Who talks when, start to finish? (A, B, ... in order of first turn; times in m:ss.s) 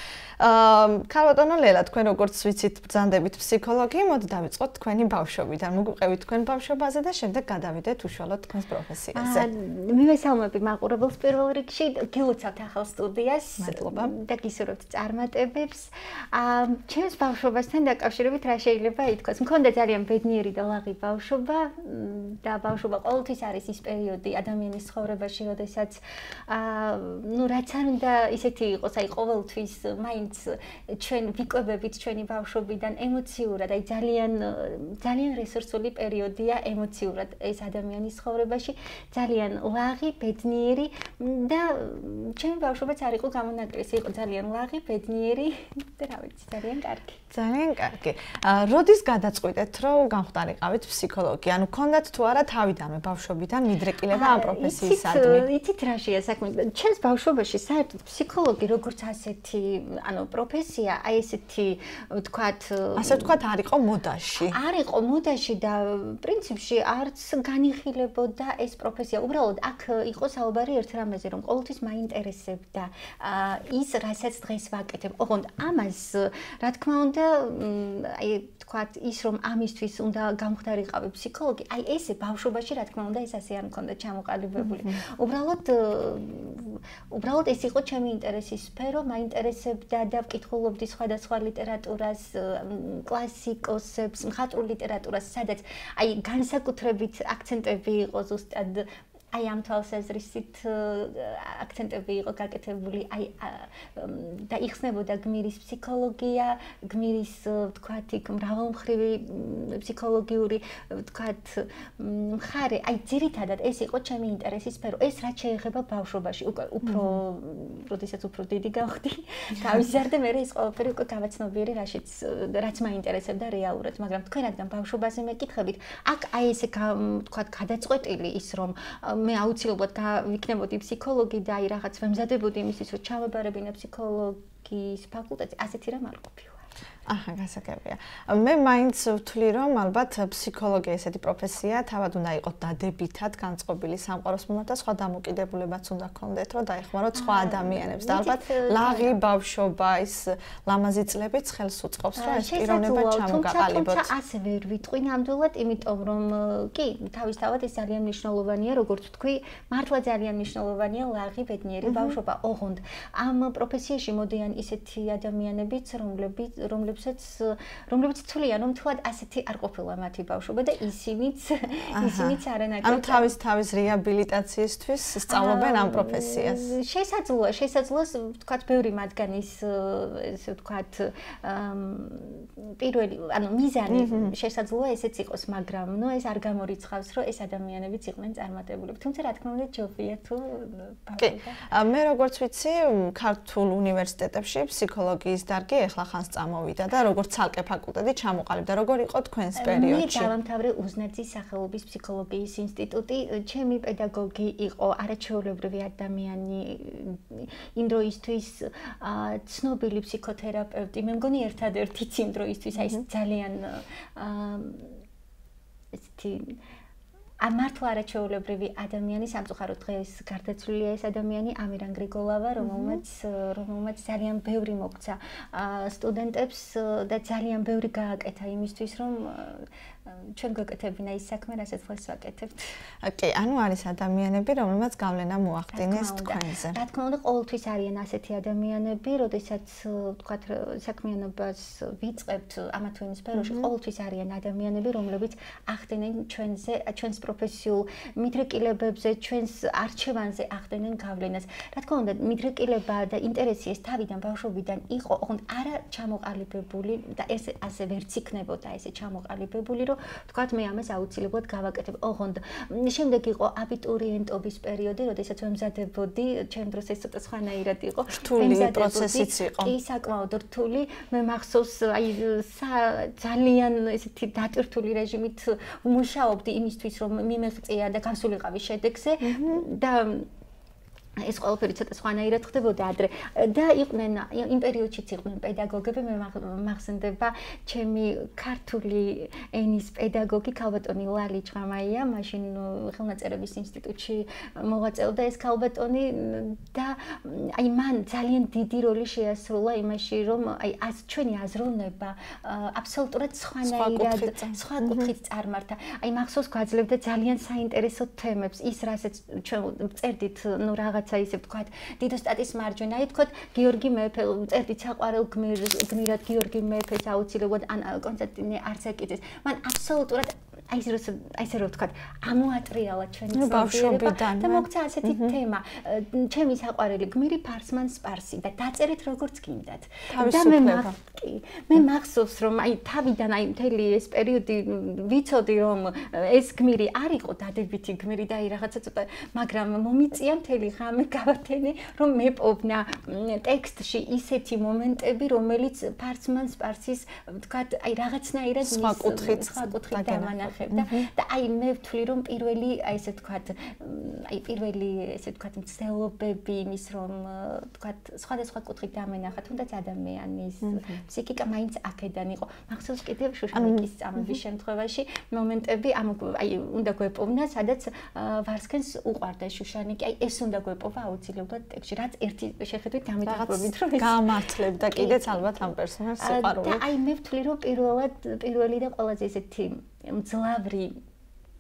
0:00.4-0:09.5 A
0:09.1-0:47.2 B
0:13.6-0:14.1 A
0:47.3-0:55.5 A
0:54.1-1:03.4 B
1:03.0-1:04.6 A
1:04.4-2:16.6 B
1:24.7-1:24.9 A
1:56.9-1:57.2 A
2:17.1-2:34.1 A
2:27.2-2:29.2 B
2:32.2-2:53.3 B
2:41.8-2:42.2 A
2:52.0-2:56.7 A
2:55.3-3:11.6 B
3:03.9-3:04.4 A
3:11.2-3:20.3 A
3:19.6-3:35.0 B
3:36.0-3:36.6 B
3:37.4-3:52.7 B
3:42.7-3:43.0 A
3:53.0-3:56.8 A
3:55.7-4:40.3 B
4:03.4-4:03.7 A
4:28.2-4:29.8 A
4:39.2-4:39.7 A
4:41.2-6:15.5 B
5:03.6-5:05.1 A
5:23.3-5:25.4 A
5:30.1-5:31.0 A
5:48.6-5:51.1 A
6:00.6-6:00.9 A
6:03.5-6:04.4 A
6:13.3-6:16.8 A
6:16.2-6:21.0 B